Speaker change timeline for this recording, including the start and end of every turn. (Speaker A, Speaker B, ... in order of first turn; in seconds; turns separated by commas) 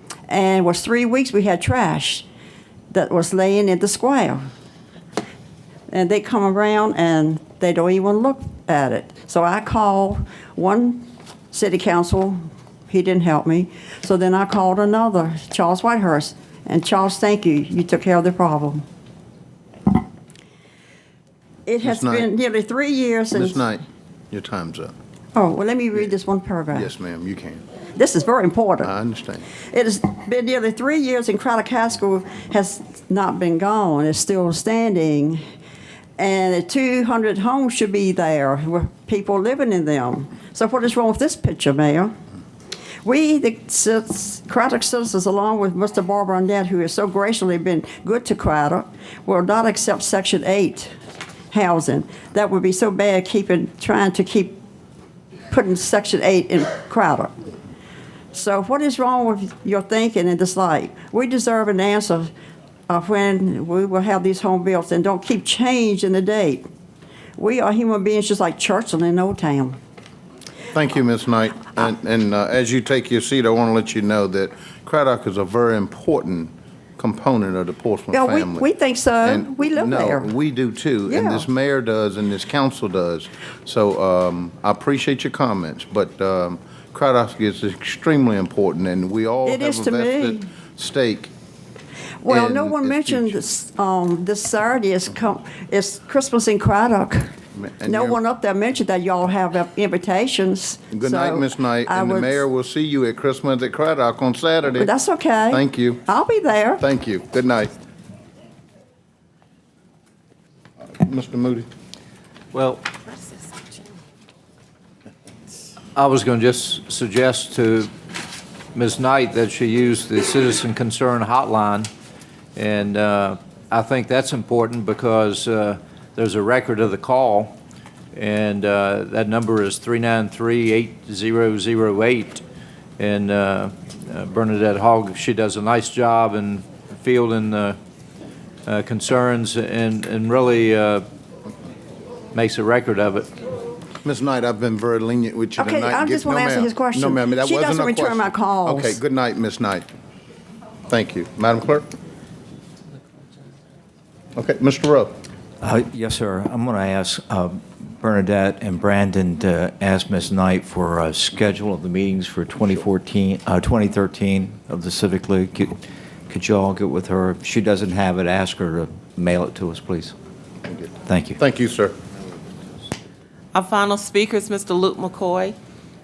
Speaker A: 0.3-2.3, Speaker A: 2.9-4.5, Speaker A: 5.9-12.4, Speaker A: 12.9-18.8, Speaker A: 21.7-23.6, Speaker B: 21.8-22.3, Speaker B: 23.3-24.9, Speaker A: 25.4-26.9, Speaker B: 26.7-27.6, Speaker A: 28.0-28.9, Speaker B: 28.8-29.5, Speaker A: 29.5-35.4, Speaker A: 36.2-42.1, Speaker A: 43.0-50.9, Speaker A: 51.5-54.6, Speaker A: 55.5-57.3, Speaker A: 58.3-62.3, Speaker A: 62.9-66.7, Speaker A: 67.4-69.8, Speaker B: 70.7-78.7, Speaker A: 78.1-80.3, Speaker B: 79.2-91.3, Speaker A: 81.1-81.5, Speaker A: 89.5-90.5, Speaker A: 92.2-97.3, Speaker B: 92.3-93.4, Speaker B: 97.5-98.2, Speaker A: 97.9-102.5, Speaker B: 100.9-104.9, Speaker A: 104.7-106.8, Speaker B: 105.5-106.0, Speaker B: 106.8-107.7, Speaker B: 110.8-111.7, Speaker C: 112.5-112.8, Speaker D: 113.1-113.9, Speaker C: 116.0-117.9, Speaker C: 118.7-121.9, Speaker C: 122.6-127.6, Speaker C: 128.1-132.4, Speaker C: 133.0-137.8, Speaker C: 138.7-141.1, Speaker C: 142.3-143.3, Speaker B: 144.0-149.9, Speaker A: 145.6-149.0, Speaker B: 150.9-151.9, Speaker B: 154.4-155.1, Speaker E: 155.6-170.2, Speaker B: 170.7-172.0, Speaker E: 171.1-171.4, Speaker D: 173.5-175.6